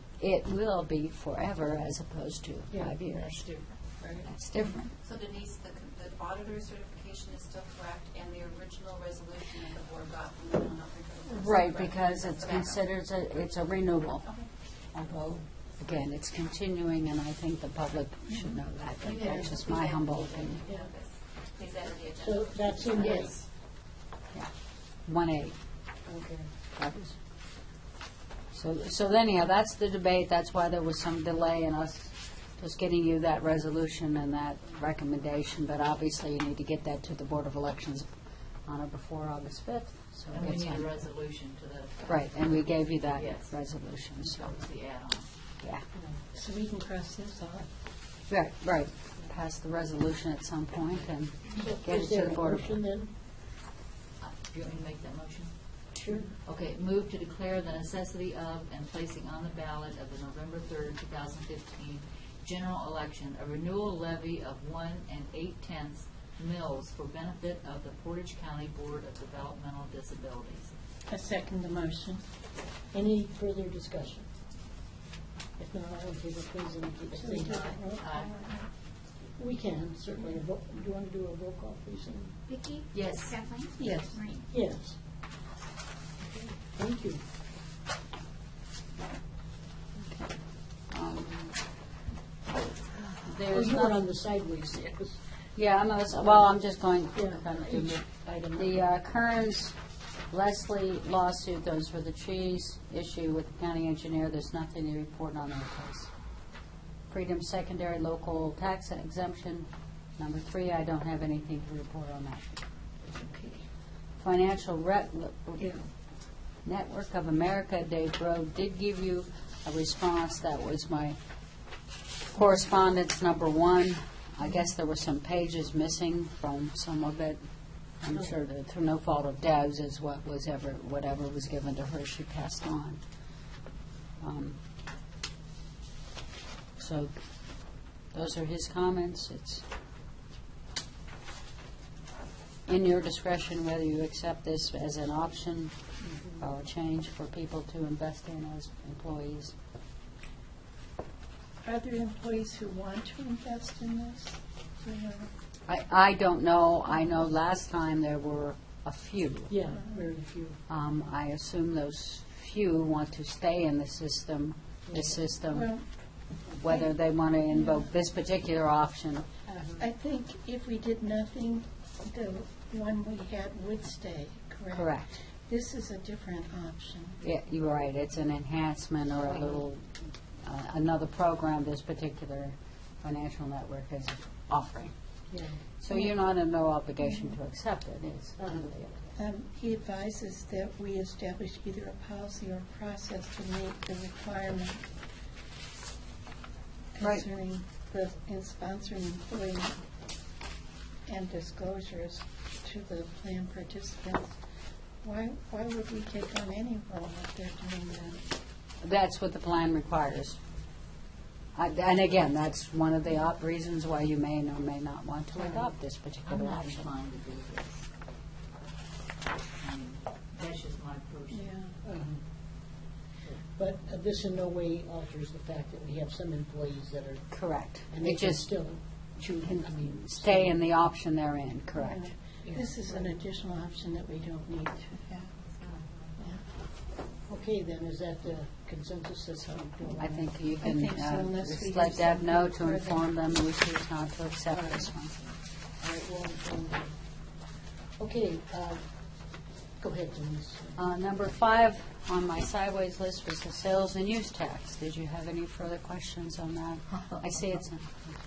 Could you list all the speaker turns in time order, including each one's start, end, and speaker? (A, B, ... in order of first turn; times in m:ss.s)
0:00.2-0:03.4 A
0:03.4-0:04.2 B
0:04.2-0:04.9 A
0:04.9-0:12.8 B
0:11.3-0:14.3 A
0:14.9-0:20.6 A
0:19.0-0:23.4 B
0:22.2-0:23.4 C
0:23.0-0:23.3 D
0:25.0-0:25.5 A
0:26.0-0:26.5 C
0:26.8-0:27.2 A
0:28.5-0:38.1 A
0:38.6-0:40.9 A
0:40.3-0:43.6 D
0:42.1-0:44.5 A
0:44.2-0:45.3 D
0:46.3-0:47.7 E
0:48.3-0:52.8 A
0:51.5-0:53.1 C
0:54.2-0:55.5 D
0:55.9-0:56.3 C
0:56.4-1:10.7 D
1:11.1-1:12.2 E
1:12.9-1:14.3 C
1:15.6-1:17.8 C
1:17.2-1:18.7 E
1:18.0-1:18.4 D
1:19.3-1:22.4 C
1:22.9-1:23.4 D
1:23.8-1:24.2 E
1:24.5-1:25.0 C
1:26.2-1:27.2 C
1:30.9-1:31.6 A
1:33.2-1:34.0 A
1:33.5-1:35.2 C
1:35.6-1:39.8 A
1:37.1-1:38.8 C
1:40.3-1:46.1 A
1:47.1-1:52.5 A
1:53.1-1:53.6 C
1:54.2-1:55.7 A
1:56.6-2:01.2 A
2:02.3-2:07.4 A
2:08.0-2:13.0 A
2:14.2-2:14.6 A
2:16.8-2:17.1 A
2:18.1-2:19.6 A
2:22.7-2:25.7 A
2:26.0-2:26.4 C
2:26.4-2:29.5 A
2:31.6-2:35.3 E
2:35.7-2:39.6 A
2:39.5-2:40.6 C
2:40.7-2:45.7 A
2:44.9-2:45.2 C
2:45.5-2:45.8 E
2:46.5-2:49.2 A
2:46.6-2:46.9 E
2:47.5-2:47.8 E
2:49.5-2:49.8 C
2:49.8-2:57.2 E
2:54.7-2:55.2 A
2:57.2-2:59.9 A
2:59.2-2:59.6 C
3:00.4-3:04.9 A
3:05.3-3:05.6 C
3:05.8-3:09.0 A
3:07.0-3:07.3 E
3:08.4-3:08.7 C
3:09.2-3:14.8 E
3:16.9-3:19.8 E
3:17.0-3:17.2 A
3:21.1-3:24.3 E
3:25.0-3:28.2 E
3:28.8-3:30.4 A
3:31.6-3:36.9 A
3:36.3-3:37.9 D
3:39.5-3:41.5 D
3:41.3-3:41.8 E
3:41.8-3:42.2 C
3:43.5-3:47.3 C
3:47.3-3:48.5 A
3:47.9-3:50.6 C
3:49.4-3:52.1 A
3:51.8-3:55.5 E
3:52.4-3:53.1 C
3:56.2-3:56.4 E
3:57.3-4:00.3 C
4:00.0-4:05.2 A
4:00.6-4:03.0 E
4:04.5-4:04.8 C
4:05.8-4:06.9 C
4:08.0-4:08.8 C
4:09.8-4:10.8 C
4:10.8-4:18.0 A